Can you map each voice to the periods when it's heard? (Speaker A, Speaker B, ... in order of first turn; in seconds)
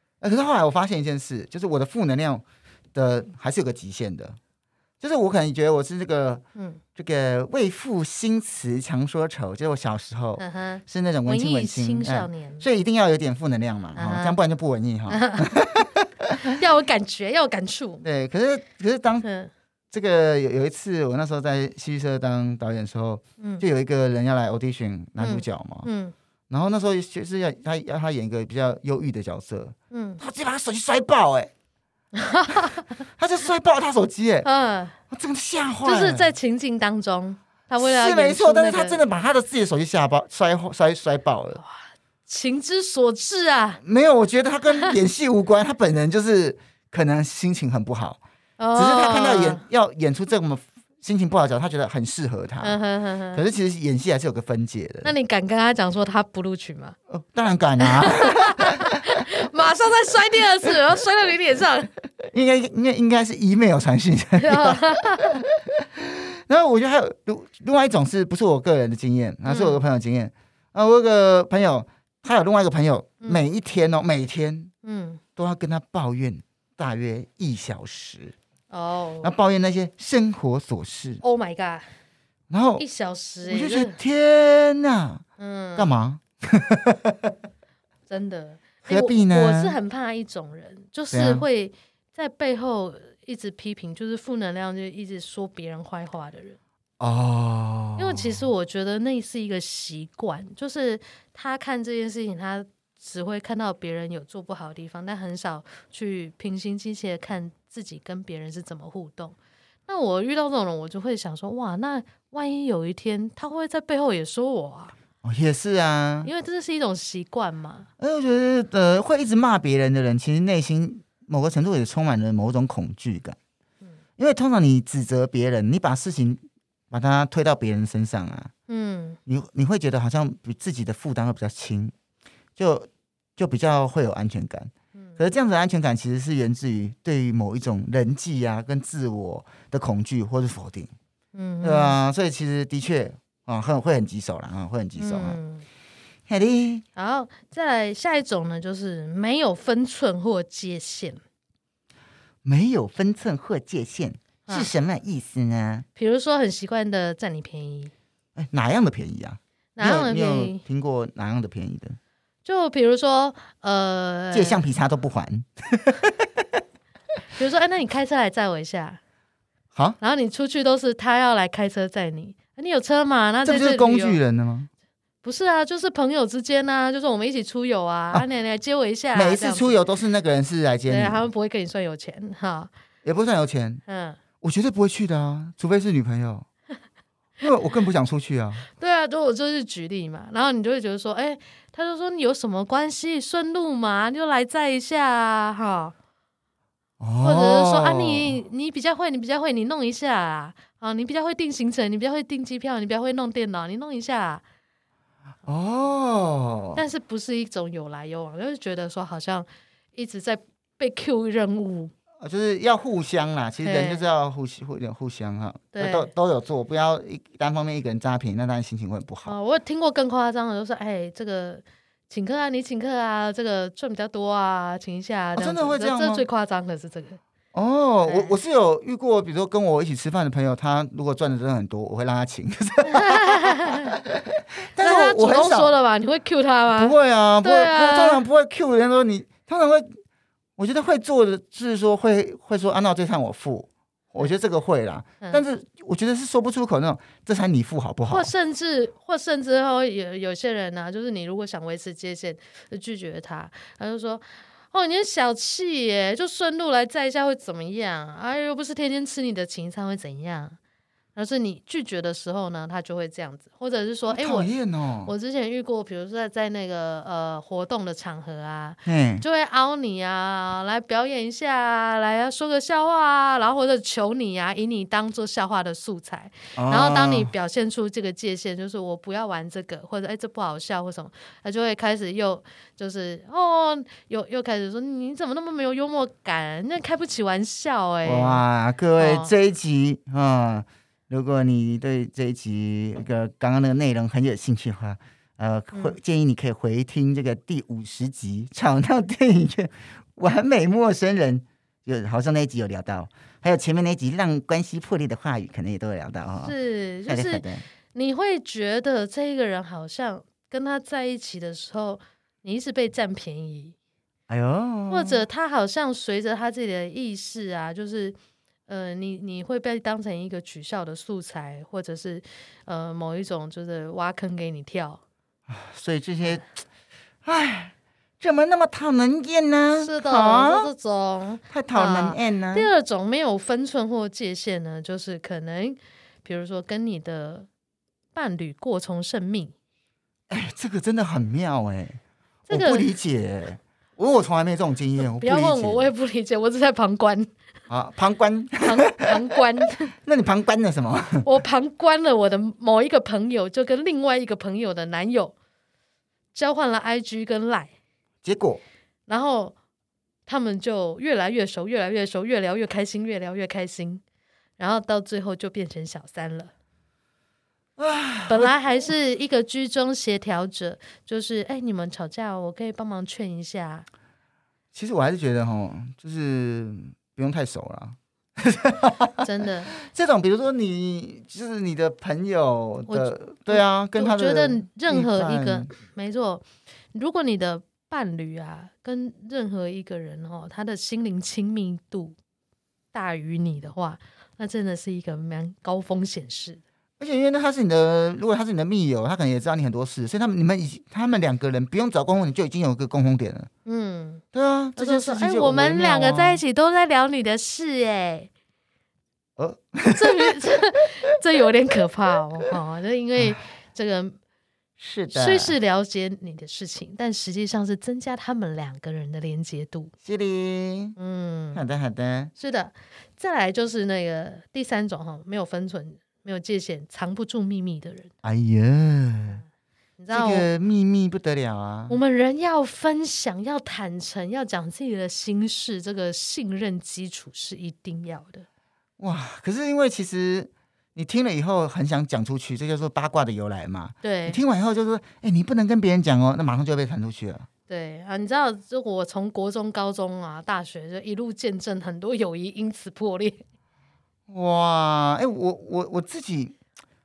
Speaker A: 0.2-4.4, 5.0-6.4, 7.0-16.3, 18.0-19.2, 19.9-25.9, 26.5-31.5, 33.2-34.5, 35.1-36.3, 37.8-41.6, 43.8-48.2, 48.8-52.8, 53.3-55.1, 57.1-59.0, 62.2-74.7, 75.4-78.3, 79.2-81.2, 82.5-82.8, 83.4-85.2, 85.8-87.3, 88.8-89.8, 91.1-91.5, 97.0-98.5, 115.2-116.3, 118.0-123.4, 124.2-128.5, 129.3-131.9, 132.6-140.9, 141.6-145.4, 146.3-146.8, 152.4-155.8, 158.4-162.0, 164.3-166.5, 173.4-174.7, 179.1-181.3, 183.0-183.8, 184.4-186.5, 187.4-188.7, 197.0-198.4, 205.4-206.8, 212.2-219.3, 225.4-226.2, 227.5-235.8, 236.7-239.9, 240.6-248.3, 264.1-265.1, 268.9-269.2, 276.6-277.3, 288.1-306.6, 307.1-307.6, 314.3-315.2, 325.5-326.5, 327.2-330.7, 331.5-332.7, 340.3-345.9, 347.7-349.2, 349.9-351.3, 358.2-358.6, 367.8-368.5, 374.7-385.7, 397.0-403.5, 404.3-406.4, 409.4-410.3, 414.8-415.6, 420.0-421.0, 421.5-422.3, 428.2-429.4, 430.1-432.0, 439.0-447.5, 454.3-456.6
Speaker B: 10.4-12.7, 14.0-14.4, 15.1-15.8, 16.4-18.0, 19.2-19.5, 25.2-26.1, 29.9-30.2, 32.1-32.9, 34.4-35.0, 35.8-39.0, 41.6-43.8, 48.6-49.6, 52.6-53.4, 55.0-57.0, 57.8-61.9, 64.4-65.3, 69.5-69.8, 74.8-75.2, 78.7-79.3, 81.2-81.9, 82.8-84.0, 85.4-85.9, 88.1-96.6, 98.0-109.4, 109.9-114.9, 116.2-117.9, 128.7-129.2, 141.3-142.0, 145.0-145.7, 147.0-151.2, 156.0-157.9, 159.8-160.6, 162.4-164.7, 167.4-169.0, 170.0-174.2, 175.2-179.8, 180.9-182.7, 183.9-184.2, 188.8-195.9, 197.2-204.4, 206.7-211.9, 213.6-214.1, 215.7-216.1, 219.2-227.2, 228.1-228.3, 232.9-234.0, 234.8-238.2, 248.1-260.6, 261.1-264.5, 265.1-288.4, 289.0-289.3, 306.4-313.8, 314.9-318.2, 318.7-325.0, 329.8-337.5, 338.1-339.5, 342.5-342.9, 345.1-347.3, 348.6-349.9, 351.2-355.3, 356.3-357.7, 359.1-359.6, 360.3-364.0, 364.6-366.5, 368.3-373.9, 379.2-379.7, 382.9-392.2, 392.9-396.6, 403.7-404.2, 404.8-408.3, 409.9-414.2, 415.1-419.9, 421.0-421.6, 422.4-428.1, 430.0-430.5, 431.9-438.4, 444.0-444.4, 447.7-453.4